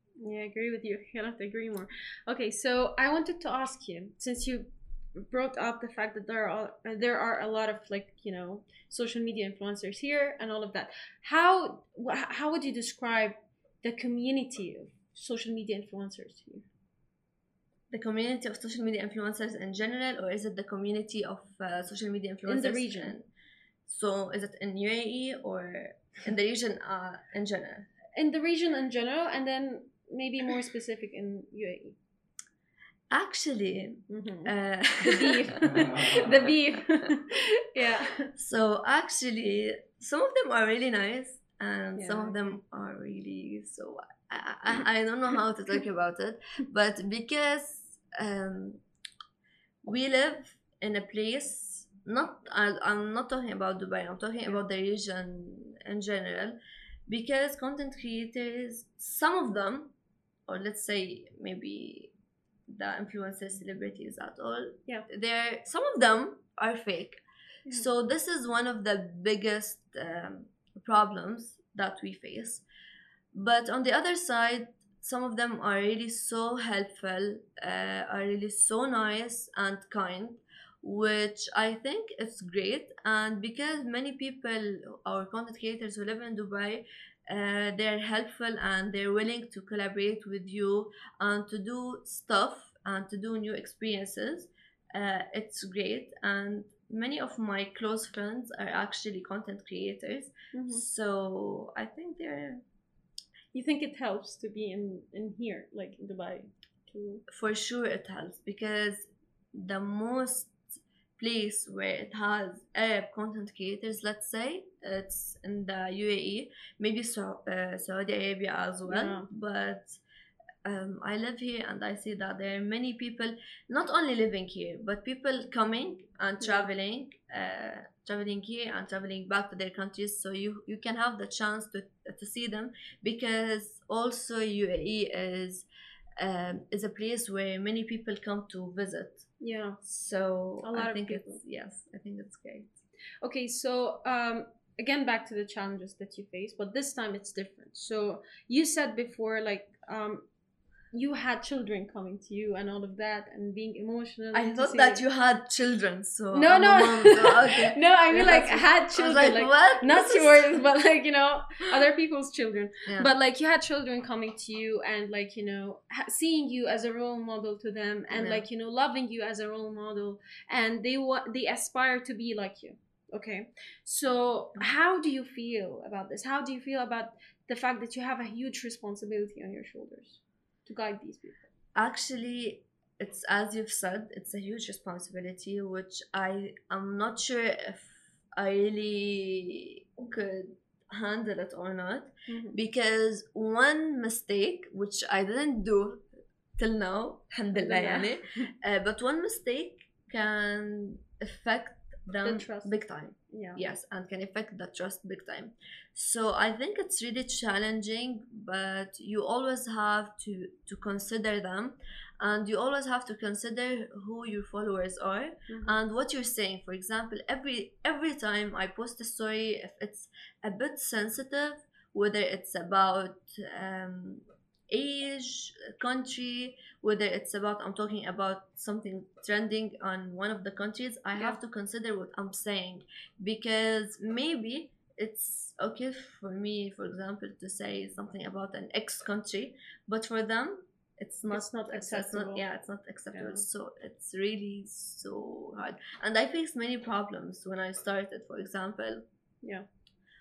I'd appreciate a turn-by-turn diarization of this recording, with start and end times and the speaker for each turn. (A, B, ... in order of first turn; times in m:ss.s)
0:00.2-0:16.6 A
0:17.9-0:23.3 B
0:22.5-0:23.2 A
0:23.9-0:27.9 B
0:28.2-0:32.0 A
0:33.1-0:37.1 B
0:34.1-0:38.3 A
0:38.3-0:48.8 B
0:42.0-0:42.6 A
0:49.8-0:56.6 B
0:57.1-0:59.9 B
1:00.5-1:02.1 B
1:02.7-1:12.6 B
1:13.3-1:42.6 B
1:40.5-1:40.8 A
1:43.5-1:47.2 A
1:47.3-1:50.7 B
1:51.2-2:00.0 B
1:58.9-1:59.3 A
2:00.6-2:15.7 B
2:06.4-2:06.7 A
2:16.2-2:19.3 B
2:19.4-2:19.8 A
2:19.8-2:22.7 B
2:20.6-2:21.4 A
2:23.2-2:30.3 A
2:30.9-2:35.0 A
2:34.3-2:40.5 B
2:36.3-3:01.4 A
2:42.9-2:43.1 B
2:48.1-2:48.5 B
3:01.8-3:16.0 B
3:12.3-3:12.6 A
3:16.6-4:09.0 B
3:17.6-3:18.5 A
3:22.2-3:22.8 A
3:23.3-3:23.6 A
3:35.5-3:35.8 A
4:01.3-4:02.4 A
4:03.1-4:03.4 A